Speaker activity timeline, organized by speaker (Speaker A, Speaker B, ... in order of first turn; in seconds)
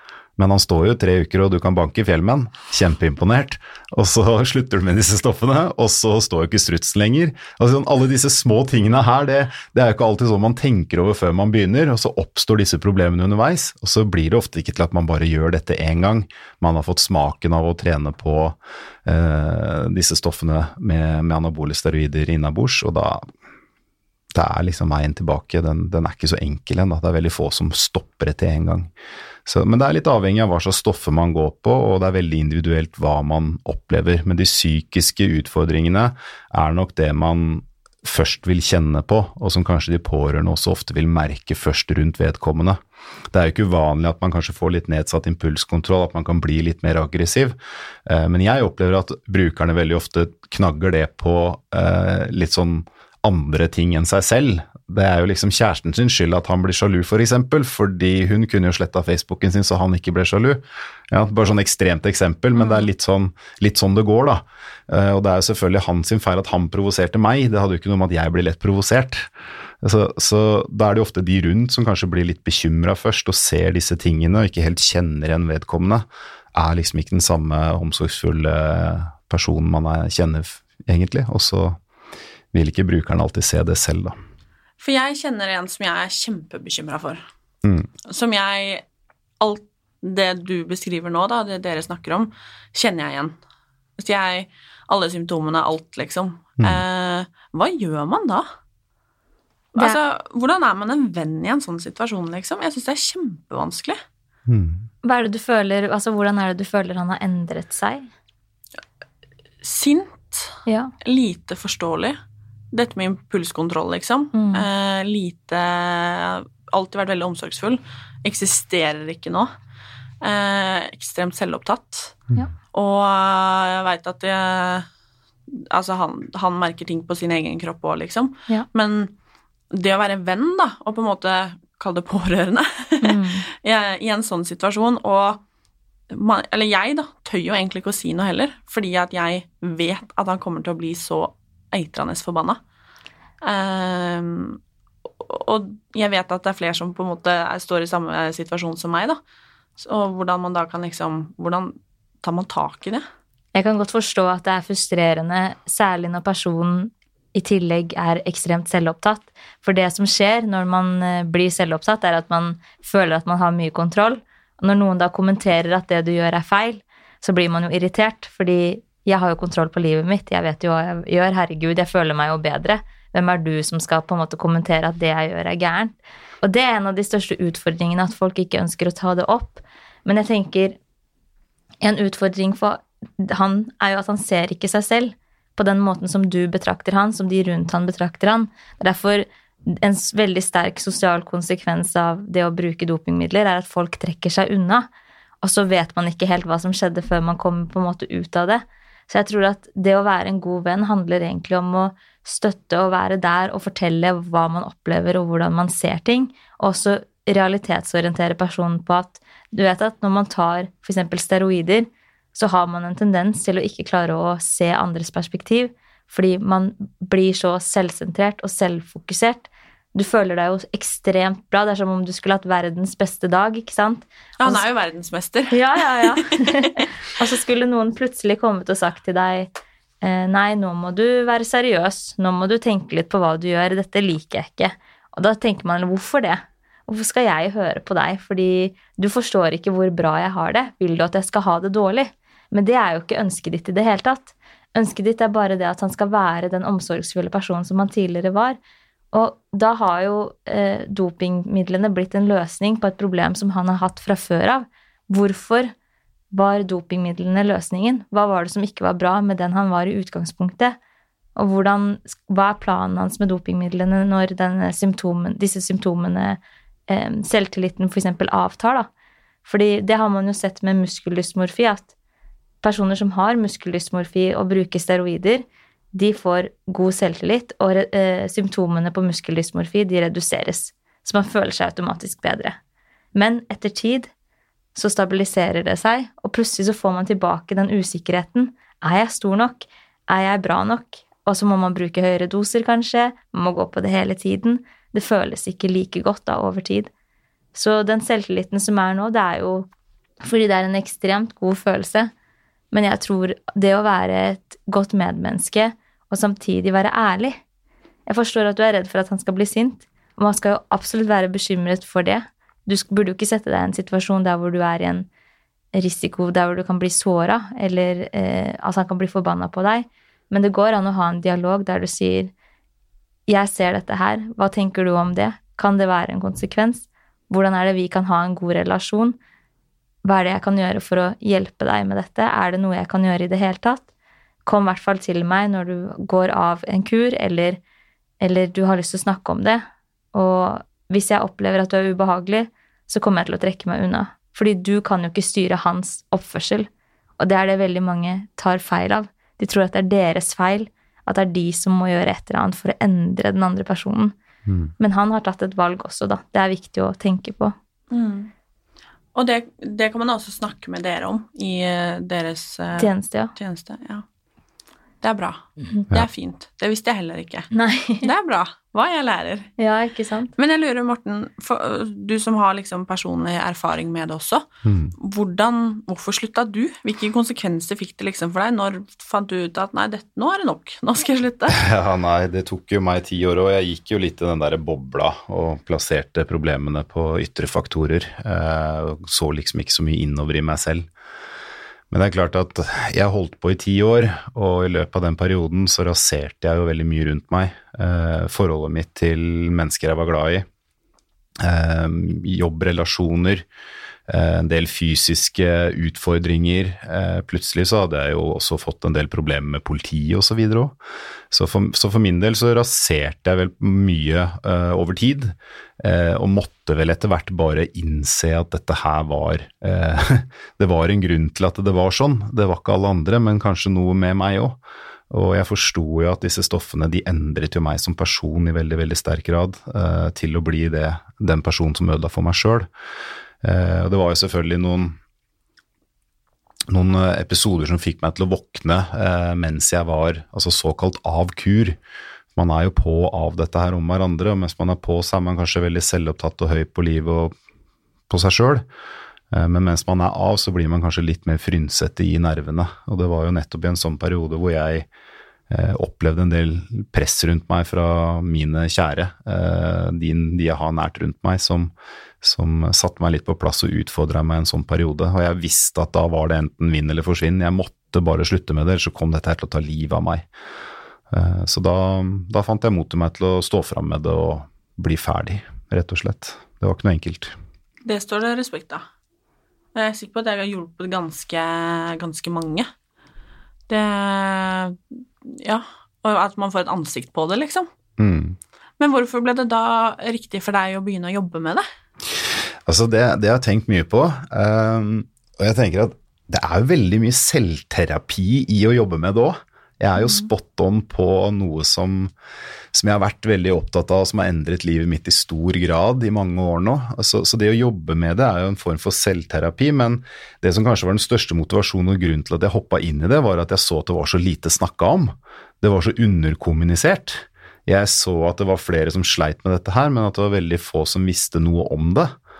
Speaker A: 0.4-23.2, 24.3-28.9, 29.4-42.8, 43.3-69.3, 69.8-81.8, 82.5-84.2, 104.5-104.9, 354.4-354.7, 374.6-374.9, 381.5-390.9, 391.9-400.4, 401.4-403.4, 404.1-410.8, 411.3-424.6, 425.1-432.7, 433.4-435.0, 436.7-441.8, 442.3-447.3, 448.1-448.6, 449.3-454.9, 455.5-470.3, 471.1-477.4, 488.0-488.4, 492.1-502.1, 502.7-522.1
Speaker B: 84.8-87.2, 88.1-88.8, 89.4-93.3, 94.0-98.4, 99.8-104.0, 109.6-112.2, 112.7-119.5, 120.2-122.2, 122.7-124.8, 125.5-129.1, 129.7-135.4, 136.1-142.6, 143.4-144.6, 145.2-149.2, 149.8-153.0, 224.4-226.8, 357.9-358.3, 359.1-364.0, 365.0-367.5, 368.0-369.5, 370.4-374.4, 375.0-381.6, 477.8-478.8, 479.7-482.7, 483.7-487.7, 488.8-491.6, 500.0-500.3
Speaker C: 105.0-108.1, 110.7-110.9, 114.3-114.7, 133.0-133.4, 153.5-180.8, 181.8-194.9, 195.4-224.6, 225.5-229.5, 230.0-248.6, 249.1-255.7, 256.3-260.8, 261.4-268.9, 269.4-271.9, 272.6-282.6, 283.1-284.1, 284.7-296.9, 297.5-299.7, 300.2-302.1, 302.7-307.4, 308.1-315.1, 315.7-322.3, 323.3-329.2, 330.0-333.9, 334.4-337.6, 338.2-354.1, 354.8-357.5, 362.8-363.3, 367.5-368.1, 369.6-370.3